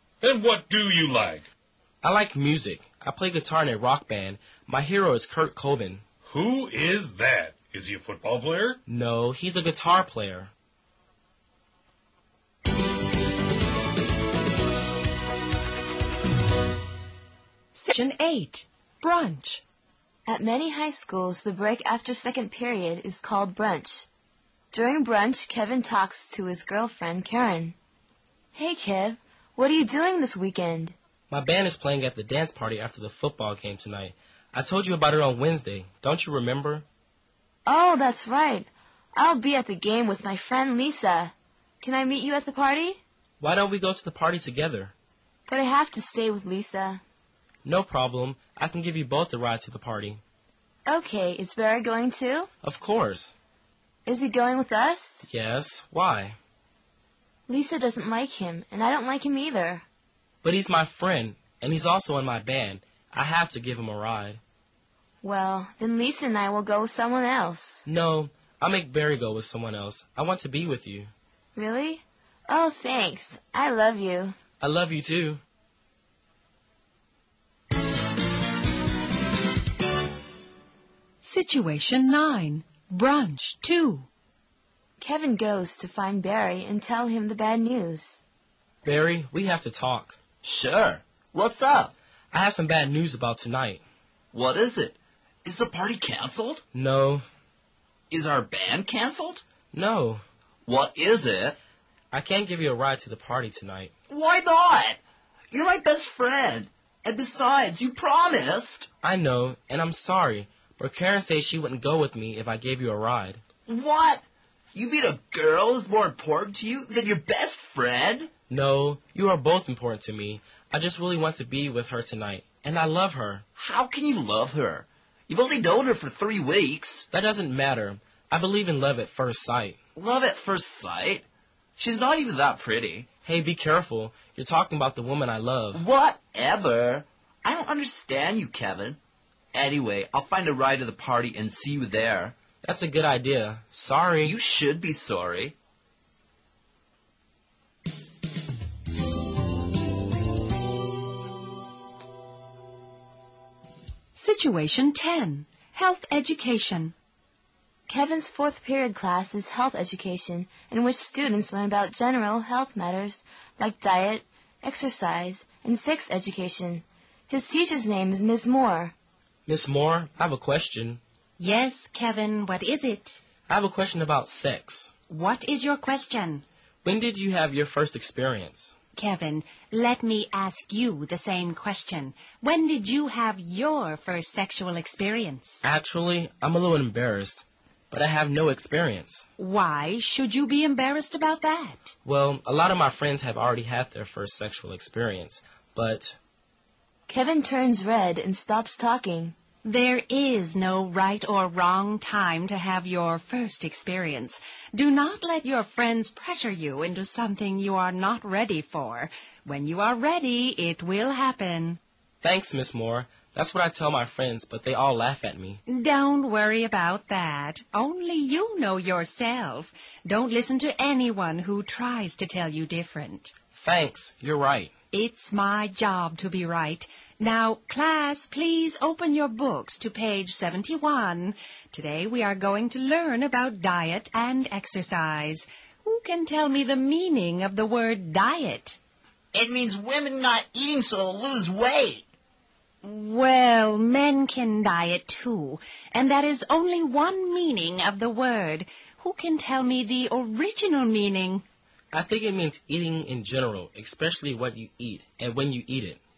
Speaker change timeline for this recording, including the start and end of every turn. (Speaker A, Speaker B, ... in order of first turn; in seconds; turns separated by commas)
Speaker A: 0.2-1.4, Speaker B: 2.0-6.0, Speaker A: 6.2-8.8, Speaker B: 8.8-10.5, Speaker C: 17.7-19.6, Speaker D: 20.3-24.1, Speaker D: 24.7-27.7, Speaker D: 28.5-30.9, Speaker B: 31.3-36.9, Speaker D: 37.6-43.0, Speaker B: 43.4-44.9, Speaker D: 45.5-47.0, Speaker B: 47.6-50.2, Speaker D: 50.9-52.5, Speaker B: 52.6-53.3, Speaker D: 54.0-55.2, Speaker B: 55.3-56.4, Speaker D: 57.5-59.8, Speaker B: 60.4-64.4, Speaker D: 65.2-67.8, Speaker B: 67.8-71.1, Speaker D: 71.5-74.3, Speaker B: 74.6-75.4, Speaker C: 81.2-84.1, Speaker D: 85.0-88.2, Speaker B: 88.8-90.2, Speaker E: 90.4-91.9, Speaker B: 92.3-93.8, Speaker E: 94.3-96.6, Speaker B: 96.7-97.2, Speaker E: 98.1-99.4, Speaker B: 99.7-100.2, Speaker E: 100.7-101.5, Speaker B: 102.1-103.9, Speaker E: 104.1-105.0, Speaker E: 105.5-108.9, Speaker B: 109.0-113.4, Speaker E: 113.7-114.2, Speaker E: 114.7-118.3, Speaker B: 118.5-123.5, Speaker E: 123.5-127.0, Speaker B: 127.1-129.8, Speaker E: 129.9-131.2, Speaker E: 131.8-133.1, Speaker B: 133.2-135.8, Speaker E: 135.7-139.0, Speaker E: 139.5-142.3, Speaker B: 142.6-144.3, Speaker E: 144.2-145.5, Speaker C: 154.1-156.9, Speaker D: 157.9-168.9, Speaker B: 169.4-171.0, Speaker C: 171.4-173.2, Speaker B: 173.5-174.9, Speaker C: 175.1-176.4, Speaker B: 176.8-178.7, Speaker C: 178.9-185.6, Speaker B: 185.6-189.2, Speaker C: 189.4-191.9, Speaker B: 192.0-196.2, Speaker D: 197.1-199.3, Speaker C: 199.6-211.8, Speaker B: 212.2-215.6, Speaker C: 215.7-223.3, Speaker B: 223.5-224.7, Speaker C: 224.9-238.8, Speaker E: 239.3-242.0, Speaker C: 242.8-251.4, Speaker B: 251.9-256.0